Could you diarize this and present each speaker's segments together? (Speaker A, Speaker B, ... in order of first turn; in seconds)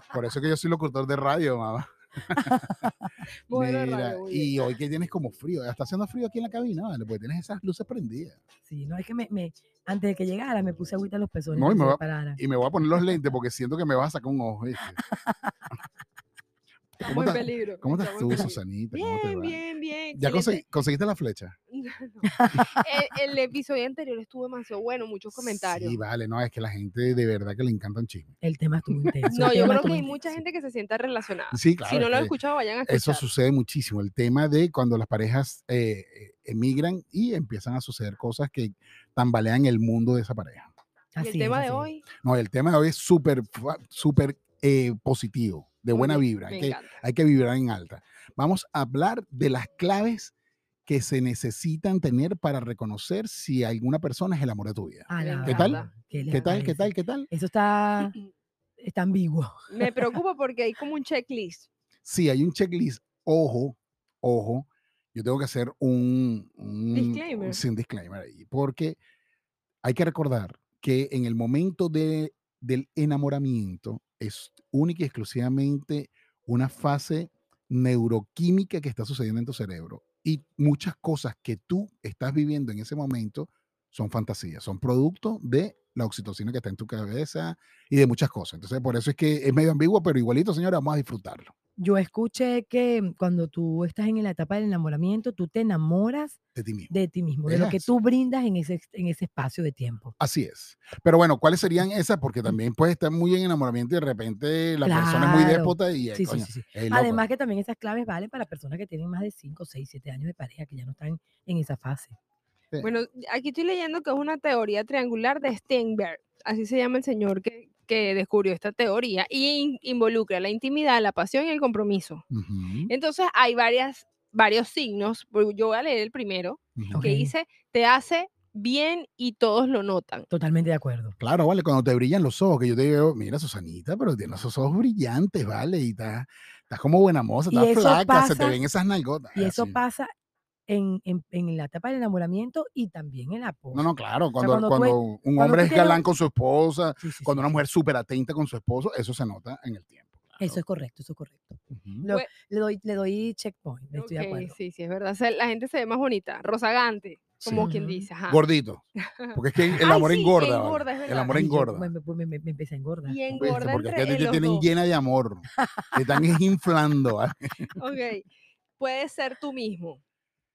Speaker A: 0.1-2.7, 3.5-8.4, 11.5-15.0, 17.0-19.6, 20.1-21.6, 25.3-28.4, 29.2-30.3, 31.5-32.4, 32.9-40.7, 42.2-50.3, 50.9-57.3, 62.0-69.0, 69.8-91.5, 96.5-97.9, 100.2-107.3, 122.3-122.9, 126.8-127.1, 131.2-139.8, 143.7-150.6, 151.7-152.1, 157.4-157.7, 158.3-161.9, 163.4-167.7
Speaker B: 2.4-3.1, 8.7-12.4, 12.9-13.2, 15.0-15.5, 22.2-22.8, 28.4-30.3, 41.1-41.9, 55.1-58.1, 58.8-60.0, 91.8-96.4, 96.9-100.1, 104.8-112.2, 126.9-127.3, 130.3-131.2, 137.5-138.6, 139.3-140.1, 140.7-146.0, 147.0-147.6, 150.4-154.6, 157.6-158.1, 161.3-163.2, 165.6-166.2
Speaker C: 3.5-4.5, 17.1-20.6, 21.7-26.0, 29.3-33.2, 41.2-42.0, 45.9-47.0, 55.2-56.6, 59.7-61.7, 66.9-67.6, 112.8-122.2, 122.9-130.3, 153.9-158.4, 159.0-161.4, 163.1-164.7, 167.8-168.3, 168.8-170.0